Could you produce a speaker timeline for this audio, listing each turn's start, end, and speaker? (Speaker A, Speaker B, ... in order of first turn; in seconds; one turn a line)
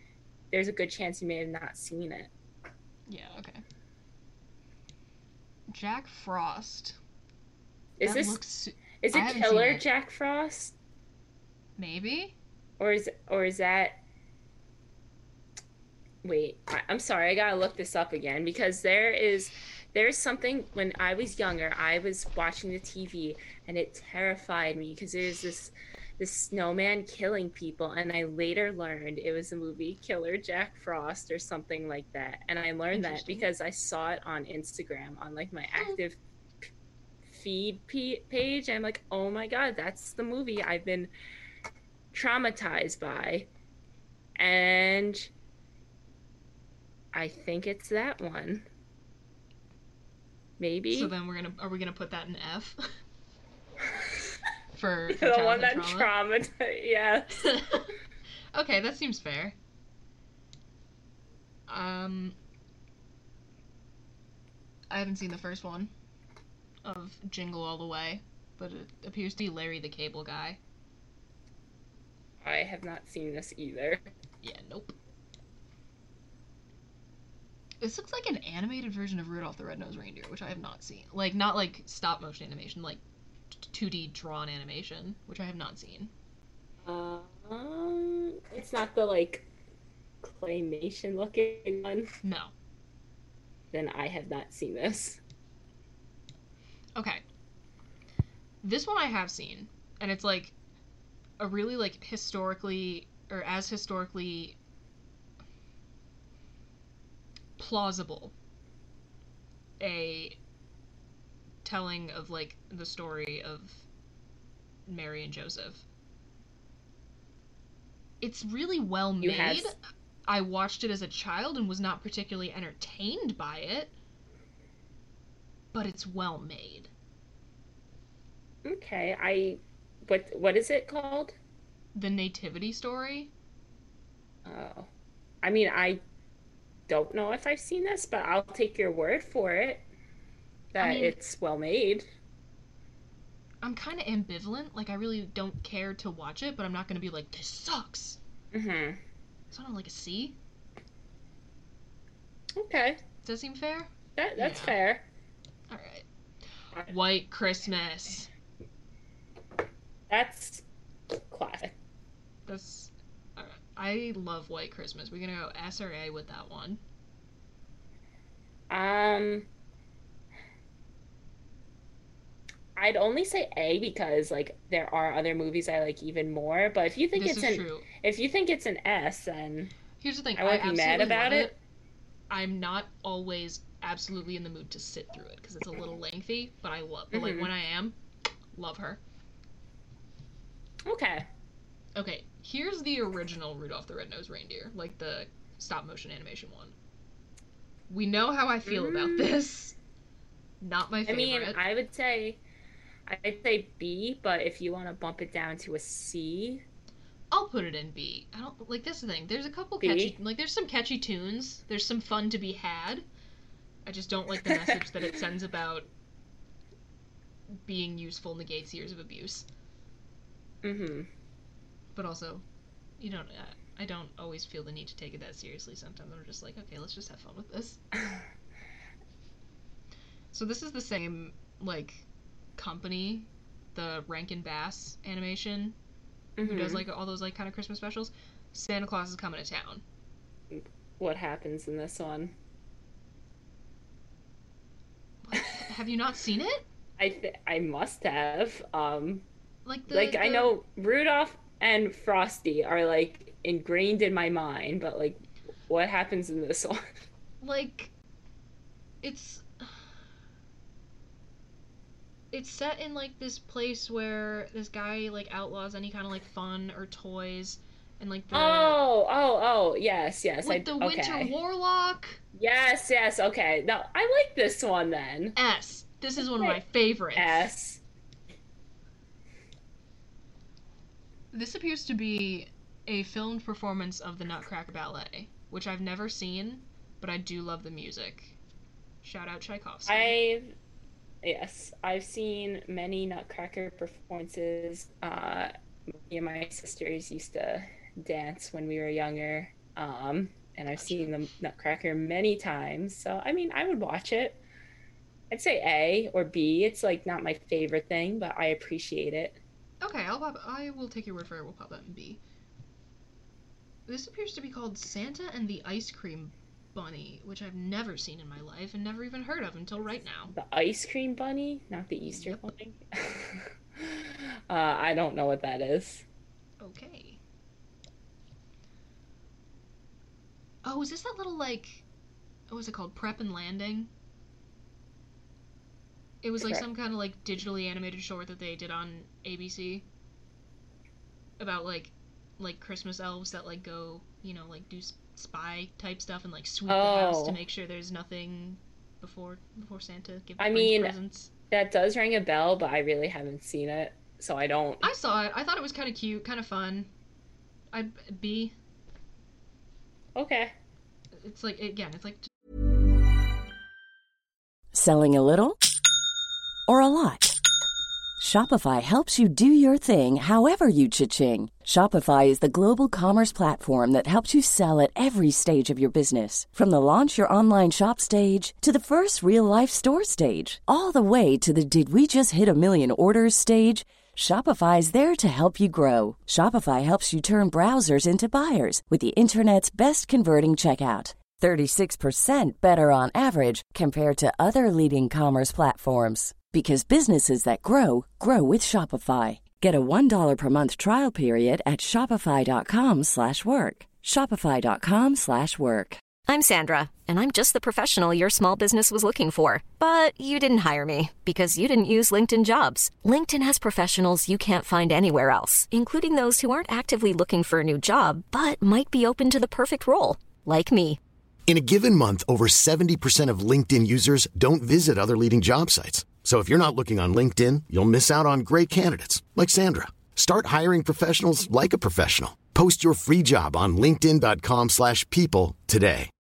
Speaker A: 0.5-2.3
Speaker B: 3.1-3.6
Speaker B: 5.7-7.0
Speaker A: 8.0-8.4
Speaker B: 8.0-9.8
Speaker A: 9.0-10.7
Speaker B: 11.8-12.3
Speaker A: 12.8-14.0
Speaker A: 16.2-36.2
Speaker B: 32.9-33.5
Speaker A: 37.2-41.1
Speaker A: 42.1-43.5
Speaker A: 44.4-45.3
Speaker A: 47.1-48.6
Speaker A: 50.6-51.1
Speaker B: 50.9-52.8
Speaker B: 54.7-56.1
Speaker A: 55.1-57.5
Speaker B: 57.4-57.9
Speaker B: 58.5-59.5
Speaker B: 61.7-62.4
Speaker B: 64.9-65.9
Speaker B: 66.8-70.6
Speaker A: 72.4-74.0
Speaker B: 74.4-74.9
Speaker B: 77.8-83.0
Speaker B: 83.5-86.1
Speaker A: 86.8-89.5
Speaker A: 90.2-92.1
Speaker B: 92.2-92.5
Speaker A: 93.7-95.2
Speaker B: 97.0-97.2
Speaker B: 98.6-100.5
Speaker B: 101.4-104.6
Speaker B: 107.6-108.3
Speaker B: 109.8-110.4
Speaker B: 111.6-113.8
Speaker B: 114.8-115.8
Speaker B: 118.2-123.9
Speaker A: 119.2-119.7
Speaker B: 125.7-126.9
Speaker A: 128.6-131.3
Speaker B: 131.9-133.3
Speaker A: 134.4-134.9
Speaker A: 135.4-136.0
Speaker A: 136.9-139.8
Speaker A: 140.7-142.1
Speaker B: 140.8-141.2
Speaker B: 143.6-148.2
Speaker A: 148.5-149.0
Speaker B: 149.5-150.3
Speaker A: 152.5-153.0
Speaker B: 153.2-154.8
Speaker A: 154.2-155.0
Speaker B: 155.7-156.0
Speaker B: 156.8-158.3
Speaker A: 160.1-160.6
Speaker A: 161.3-161.7
Speaker B: 162.4-166.8
Speaker A: 168.7-169.5
Speaker A: 172.8-179.7
Speaker B: 177.1-177.9
Speaker B: 180.0-181.6
Speaker A: 180.3-181.5
Speaker B: 182.3-187.9
Speaker A: 187.1-187.5
Speaker B: 188.5-189.0
Speaker A: 190.8-191.3
Speaker B: 191.9-196.7
Speaker B: 197.9-199.8
Speaker A: 198.7-199.4
Speaker B: 200.6-201.6
Speaker A: 201.1-202.4
Speaker A: 203.1-206.6
Speaker B: 207.3-213.0
Speaker A: 209.8-210.2
Speaker B: 213.8-215.9
Speaker A: 214.4-214.9
Speaker B: 217.6-219.4
Speaker A: 220.6-221.1
Speaker B: 221.9-222.4
Speaker B: 223.0-227.8
Speaker B: 230.3-232.0
Speaker B: 232.6-235.8
Speaker A: 236.4-236.8
Speaker B: 236.4-239.8
Speaker A: 240.5-242.3
Speaker B: 245.2-246.7
Speaker A: 247.0-249.2
Speaker B: 249.6-250.5
Speaker A: 249.9-256.8
Speaker B: 257.4-257.9
Speaker B: 259.0-259.9
Speaker B: 262.3-268.8
Speaker A: 268.3-271.3
Speaker B: 270.4-272.2
Speaker A: 272.3-275.4
Speaker B: 275.4-277.5
Speaker A: 276.2-276.6
Speaker A: 277.1-277.8
Speaker B: 281.3-288.4
Speaker B: 289.0-290.2
Speaker A: 289.9-290.5
Speaker A: 291.2-304.4
Speaker B: 300.7-301.1
Speaker A: 305.3-309.4
Speaker B: 309.8-312.2
Speaker B: 313.9-320.3
Speaker A: 320.3-326.0
Speaker B: 322.1-322.4
Speaker B: 326.6-327.2
Speaker B: 330.6-331.8
Speaker B: 332.5-333.9
Speaker B: 336.2-339.8
Speaker A: 336.4-336.6
Speaker B: 341.4-351.3
Speaker A: 346.7-347.4
Speaker A: 350.4-350.9
Speaker A: 351.5-354.9
Speaker B: 354.8-356.9
Speaker B: 357.7-358.5
Speaker A: 360.1-360.5
Speaker B: 361.2-362.2
Speaker C: 364.7-365.6
Speaker C: 366.7-367.3
Speaker C: 368.2-406.0
Speaker D: 406.2-421.0
Speaker E: 421.5-436.1